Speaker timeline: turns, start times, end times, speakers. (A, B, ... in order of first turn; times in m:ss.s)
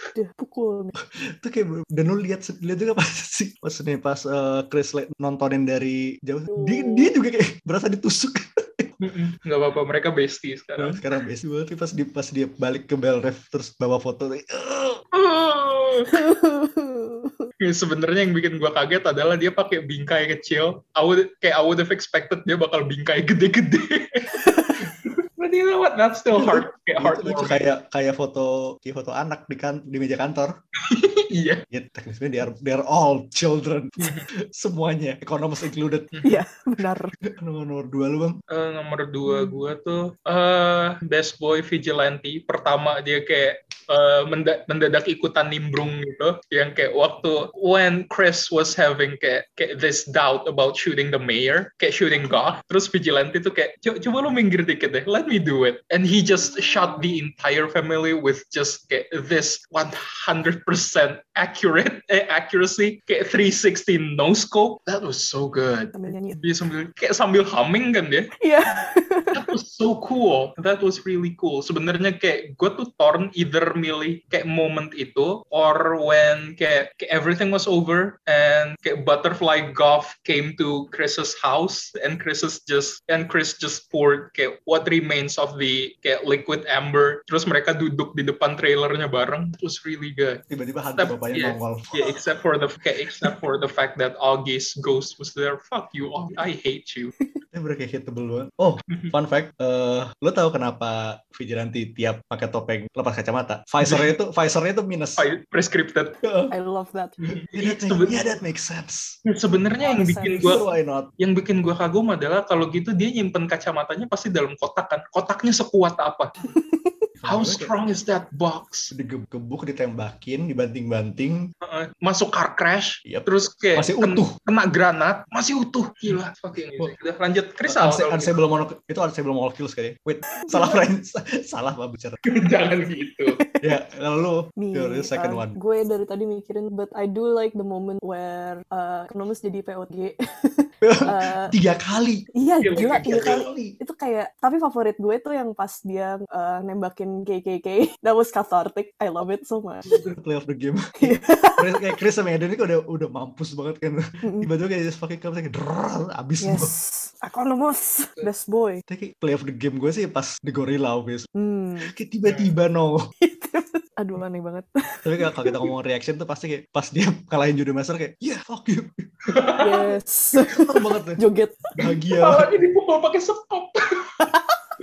0:00.1-0:00.9 A
0:01.0-0:08.9 B
0:06.5-0:07.2 A
0:09.0-0:11.0 C
0:10.8-0:15.0 B
0:15.1-0:16.1 C
0:16.1-0:17.5 A
0:17.6-0:27.7 C
0:26.3-0:30.5 B
0:30.8-0:31.6 C
0:31.7-0:36.1 B
0:34.0-0:34.3 C
0:36.1-0:36.4 C
0:36.2-0:37.1 A
0:37.2-0:38.4 B
0:38.5-1:08.3 C
1:05.9-1:06.4 A
1:08.4-1:09.5 A
1:09.3-1:30.4 C
1:30.5-1:32.0 B
1:31.0-1:37.1 C
1:37.5-1:45.2 B
1:43.8-1:44.1 C
1:45.2-1:46.2 C
1:46.2-1:46.5 B
1:46.5-1:47.2 A
1:47.2-1:48.3 C
1:47.5-1:49.2 B
1:49.2-1:50.6 C
1:49.8-1:50.7 A
1:50.4-1:51.1 B
1:51.2-1:56.3 C
1:56.4-1:57.0 A
1:57.2-1:57.7 B
1:57.2-1:58.9 C
1:58.9-2:01.5 B
2:01.6-2:08.4 C
2:03.0-2:04.3 B
2:07.6-2:12.2 B
2:10.4-2:10.8 A
2:12.2-2:13.4 C
2:13.4-2:13.7 A
2:13.6-2:15.6 B
2:14.6-2:21.5 A
2:20.8-2:22.3 B
2:22.3-2:30.0 A
2:22.6-2:23.5 C
2:23.0-2:23.8 B
2:29.8-2:30.2 C
2:30.2-2:36.7 B
2:31.0-2:32.0 A
2:34.2-2:34.5 A
2:36.4-2:38.8 A
2:38.9-2:41.3 B
2:41.4-2:41.9 A
2:41.8-2:43.0 B
2:42.2-2:42.6 C
2:43.2-2:45.6 A
2:45.0-2:49.1 B
2:49.3-2:49.9 C
2:49.6-2:51.7 A
2:50.4-2:51.2 B
2:51.8-2:52.6 B
2:51.8-2:54.3 C